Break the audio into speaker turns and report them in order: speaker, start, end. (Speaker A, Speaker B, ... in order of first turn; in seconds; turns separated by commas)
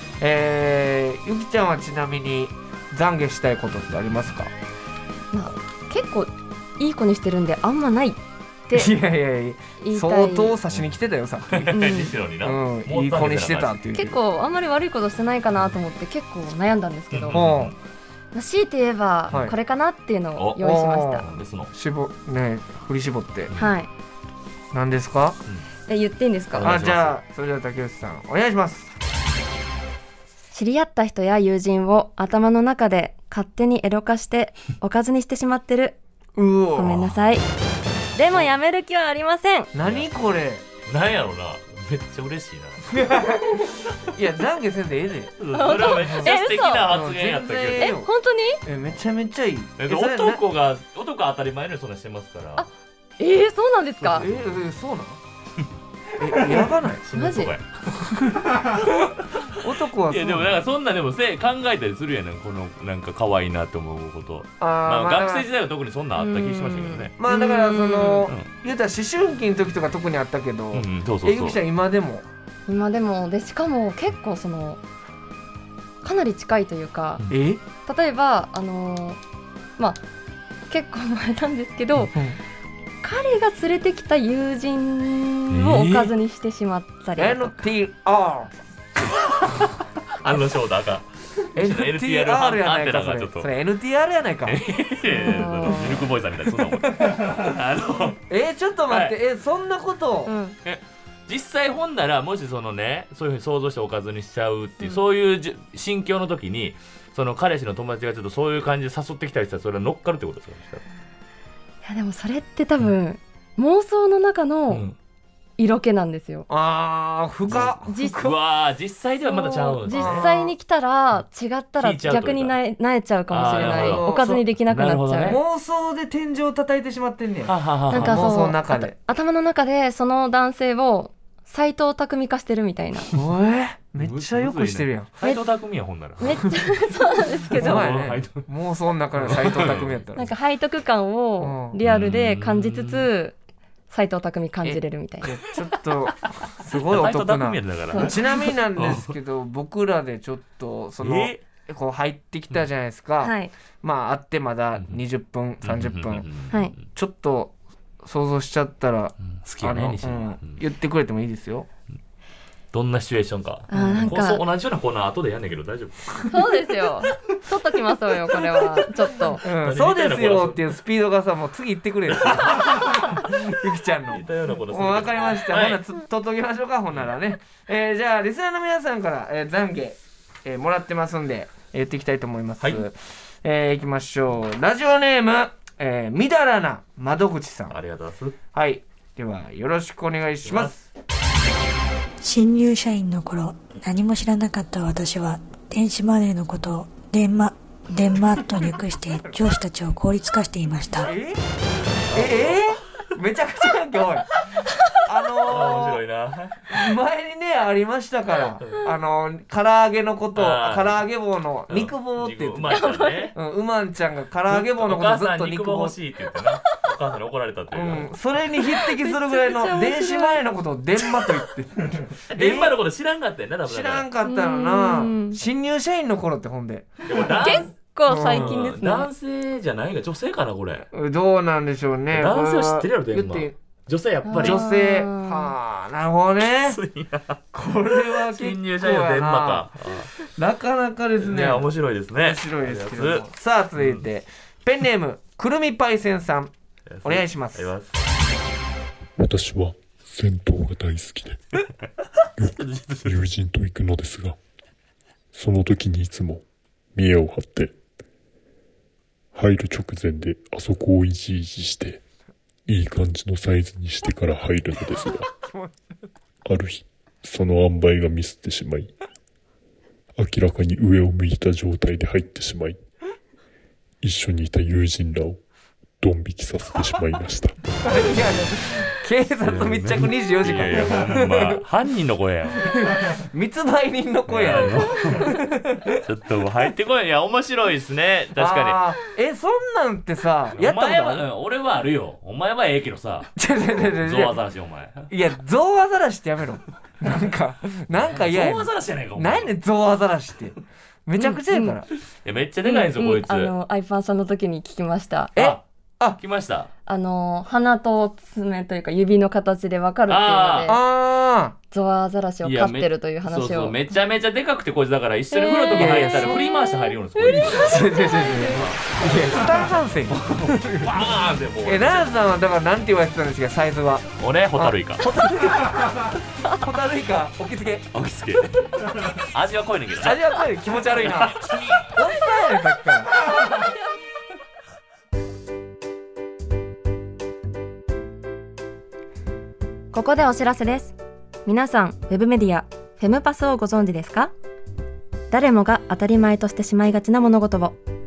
Speaker A: 0.2-4.5, Speaker B: 5.3-8.9, Speaker A: 8.7-11.8, Speaker B: 9.8-10.6, Speaker C: 11.5-13.8, Speaker B: 11.7-12.1, Speaker A: 12.4-14.2, Speaker B: 13.9-17.4, Speaker C: 17.1-17.7, Speaker A: 17.3-17.7, Speaker B: 18.3-21.3, Speaker C: 20.4-20.6, Speaker A: 20.6-23.5, Speaker C: 21.2-21.7, Speaker B: 23.5-23.9, Speaker A: 24.7-25.4, Speaker B: 25.9-26.7, Speaker C: 26.5-27.2, Speaker A: 26.6-28.9, Speaker B: 30.5-36.0, Speaker A: 36.4-37.1, Speaker B: 36.8-37.5, Speaker B: 38.1-39.7, Speaker A: 39.7-40.6, Speaker C: 39.8-40.1, Speaker C: 40.9-43.3, Speaker A: 42.9-45.3, Speaker C: 45.4-48.0, Speaker B: 45.5-46.9, Speaker A: 46.9-48.1, Speaker B: 47.6-48.6, Speaker A: 48.6-50.4, Speaker C: 49.8-52.6, Speaker B: 52.6-54.3, Speaker A: 54.0-55.2, Speaker A: 56.2-57.0, Speaker C: 57.0-57.6, Speaker B: 57.1-57.5, Speaker A: 57.9-58.7, Speaker C: 58.5-67.1, Speaker A: 59.6-60.6, Speaker A: 64.6-65.5, Speaker B: 66.2-68.3, Speaker A: 67.2-72.2, Speaker C: 70.7-71.6, Speaker B: 72.7-74.8, Speaker B: 76.0-77.2, Speaker A: 77.3-77.6, Speaker B: 77.9-79.2, Speaker B: 79.8-80.0, Speaker B: 80.7-82.2, Speaker A: 82.1-82.4, Speaker B: 83.0-87.6, Speaker C: 85.5-86.1, Speaker A: 87.2-88.5, Speaker C: 89.4-89.7, Speaker C: 90.2-93.5, Speaker A: 91.5-94.6, Speaker C: 94.5-98.2, Speaker B: 95.1-96.0, Speaker A: 95.6-96.0, Speaker A: 96.8-97.4, Speaker A: 98.3-100.3, Speaker C: 98.9-99.1, Speaker B: 100.3-100.6, Speaker C: 100.6-110.8, Speaker B: 111.8-114.8, Speaker C: 114.7-115.0, Speaker B: 115.6-116.5, Speaker A: 116.5-118.4, Speaker C: 117.5-120.5, Speaker B: 117.5-118.2, Speaker B: 119.2-125.4, Speaker A: 119.9-120.5, Speaker C: 121.8-122.5, Speaker C: 123.3-125.4, Speaker A: 123.4-124.2, Speaker A: 125.2-128.9, Speaker C: 127.5-128.3, Speaker B: 127.9-133.1, Speaker A: 133.1-135.1, Speaker C: 134.0-136.6, Speaker B: 136.2-137.9, Speaker C: 137.5-138.5, Speaker A: 137.6-140.3, Speaker C: 139.2-140.1, Speaker B: 140.1-143.3, Speaker A: 141.4-141.8, Speaker C: 141.8-143.1, Speaker B: 143.9-145.4, Speaker A: 144.6-156.3, Speaker C: 146.9-149.1, Speaker B: 147.9-148.5, Speaker C: 151.0-151.4, Speaker B: 153.2-153.5, Speaker C: 154.8-155.0, Speaker C: 155.6-156.8, Speaker A: 156.9-161.7, Speaker C: 159.3-160.6, Speaker C: 162.7-166.4, Speaker B: 163.7-164.4, Speaker A: 163.7-164.1, Speaker B: 166.2-169.4, Speaker A: 169.4-187.8, Speaker C: 169.4-170.7, Speaker C: 172.1-175.8, Speaker C: 187.7-188.4, Speaker A: 188.5-190.9, Speaker C: 190.4-190.7, Speaker D: 192.2-201.1, Speaker A: 201.1-201.4, Speaker C: 202.1-202.8, Speaker A: 202.1-204.3, Speaker A: 205.1-206.0, Speaker C: 205.4-206.8, Speaker A: 206.7-212.8, Speaker C: 208.6-208.9, Speaker C: 210.4-211.0, Speaker C: 211.7-213.3, Speaker B: 212.7-213.3, Speaker A: 213.3-216.0, Speaker C: 214.5-218.1, Speaker A: 217.7-222.8, Speaker B: 218.7-220.4, Speaker C: 222.3-224.1, Speaker A: 223.7-226.9, Speaker B: 224.2-225.4, Speaker C: 227.1-230.9, Speaker B: 227.4-229.1, Speaker A: 228.1-228.6, Speaker A: 230.9-233.6, Speaker C: 232.1-234.6, Speaker B: 234.2-235.5, Speaker A: 234.4-236.8, Speaker C: 236.5-237.4, Speaker A: 237.5-239.7, Speaker C: 238.1-240.1, Speaker A: 240.3-241.7, Speaker C: 241.2-244.0, Speaker A: 242.2-246.5, Speaker C: 246.9-247.9, Speaker A: 247.0-247.7, Speaker E: 249.2-251.4, Speaker E: 252.4-254.4, Speaker C: 252.4-253.2, Speaker E: 255.3-256.4, Speaker E: 256.9-257.8, Speaker E: 259.3-262.0, Speaker E: 262.6-265.3, Speaker A: 265.4-265.8, Speaker E: 266.4-268.9, Speaker E: 270.2-272.8, Speaker E: 274.0-275.4, Speaker E: 276.0-277.8, Speaker A: 277.8-281.6, Speaker C: 279.4-282.8, Speaker A: 282.6-286.0, Speaker C: 284.3-285.4, Speaker C: 286.0-288.8, Speaker A: 288.4-291.3, Speaker C: 290.6-293.3, Speaker A: 293.4-294.4, Speaker C: 293.9-295.1, Speaker A: 295.1-300.6, Speaker C: 297.9-299.5, Speaker A: 301.1-301.9, Speaker B: 301.2-301.7, Speaker C: 302.2-303.5, Speaker B: 302.6-305.3, Speaker A: 305.4-306.2, Speaker C: 305.4-305.6, Speaker C: 306.2-306.7, Speaker B: 306.9-310.8, Speaker C: 310.1-310.8, Speaker A: 310.6-311.6, Speaker B: 311.7-313.8, Speaker C: 312.4-317.9, Speaker B: 315.3-316.3, Speaker A: 315.7-316.4, Speaker B: 317.1-318.6, Speaker A: 317.3-320.9, Speaker C: 320.1-322.1, Speaker A: 321.6-327.9, Speaker C: 324.2-325.1, Speaker C: 327.9-330.2, Speaker A: 330.0-333.1, Speaker C: 330.9-332.0, Speaker B: 339.9-340.9, Speaker B: 341.5-344.3, Speaker B: 345.3-347.8